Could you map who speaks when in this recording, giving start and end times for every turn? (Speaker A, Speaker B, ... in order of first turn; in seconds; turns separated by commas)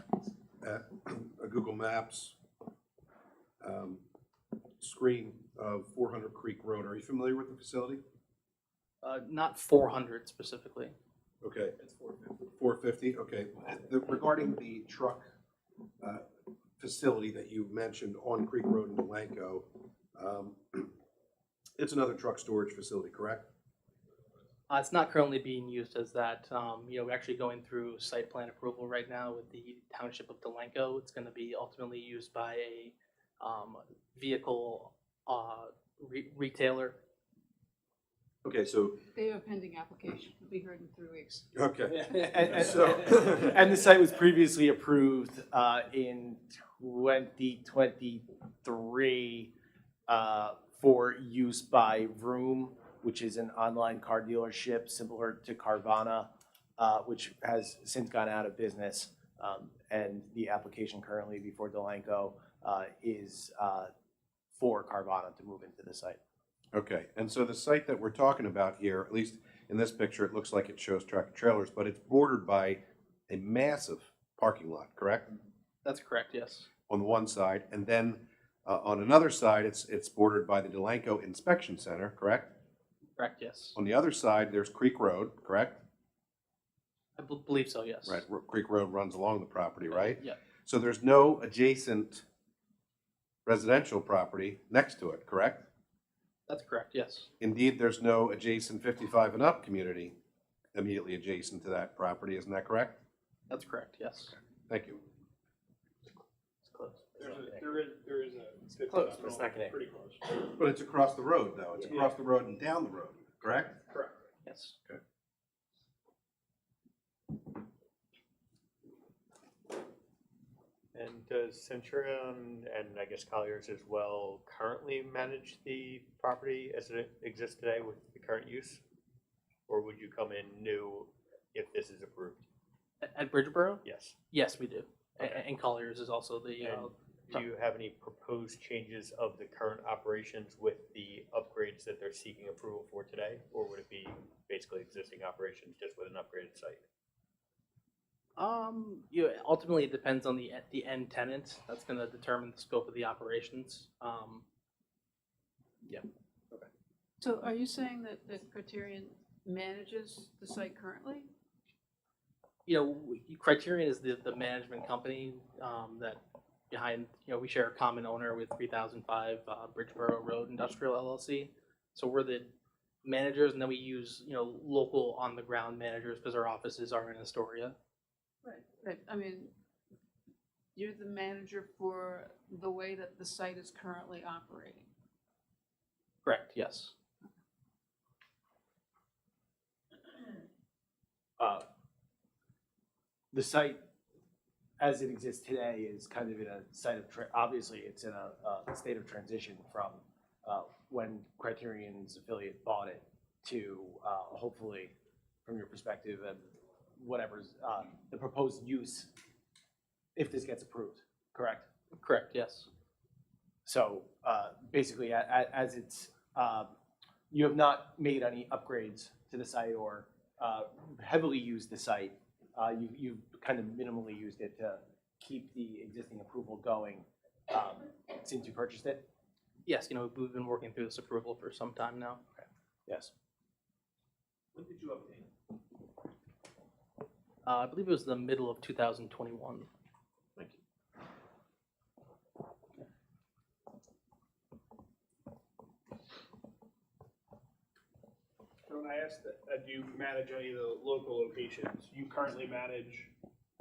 Speaker A: 0.6-2.4, Speaker A: 3.6-4.0, Speaker A: 4.8-8.0, Speaker B: 9.0-10.9, Speaker A: 11.4-15.3, Speaker A: 16.8-20.9, Speaker A: 21.8-23.5, Speaker B: 24.7-37.0, Speaker A: 38.4-39.0, Speaker C: 39.1-41.5, Speaker A: 41.5-43.5, Speaker D: 41.9-49.5, Speaker D: 50.1-63.9, Speaker D: 64.5-66.2, Speaker A: 66.7-75.3, Speaker B: 75.8-76.7, Speaker A: 76.9-82.5, Speaker B: 83.2-83.8, Speaker A: 83.8-85.8, Speaker B: 87.2-88.2, Speaker A: 88.1-92.2, Speaker B: 89.9-90.4, Speaker A: 93.5-95.7, Speaker B: 96.5-97.3, Speaker A: 97.4-100.2, Speaker A: 100.8-103.0, Speaker B: 103.5-104.3, Speaker A: 104.7-105.0, Speaker B: 106.7-107.0, Speaker E: 107.2-110.2, Speaker A: 110.4-113.8, Speaker E: 113.9-114.2, Speaker B: 114.5-114.8, Speaker F: 120.9-128.8, Speaker F: 129.7-132.4, Speaker B: 133.0-137.4, Speaker F: 133.8-134.1, Speaker F: 136.6-146.8, Speaker B: 148.4-154.4, Speaker C: 157.2-161.3, Speaker B: 162.7-166.2, Speaker B: 166.7-172.5, Speaker B: 173.0-177.8, Speaker C: 178.4-179.5, Speaker C: 180.8-184.9, Speaker B: 186.2-186.9, Speaker D: 191.4-191.7, Speaker D: 193.3-193.8, Speaker D: 194.8-209.1, Speaker D: 210.2-211.7, Speaker B: 211.9-212.7, Speaker D: 213.7-216.7, Speaker D: 217.3-229.1, Speaker B: 229.7-232.2, Speaker D: 232.9-233.1, Speaker B: 237.4-239.7, Speaker E: 248.7-253.1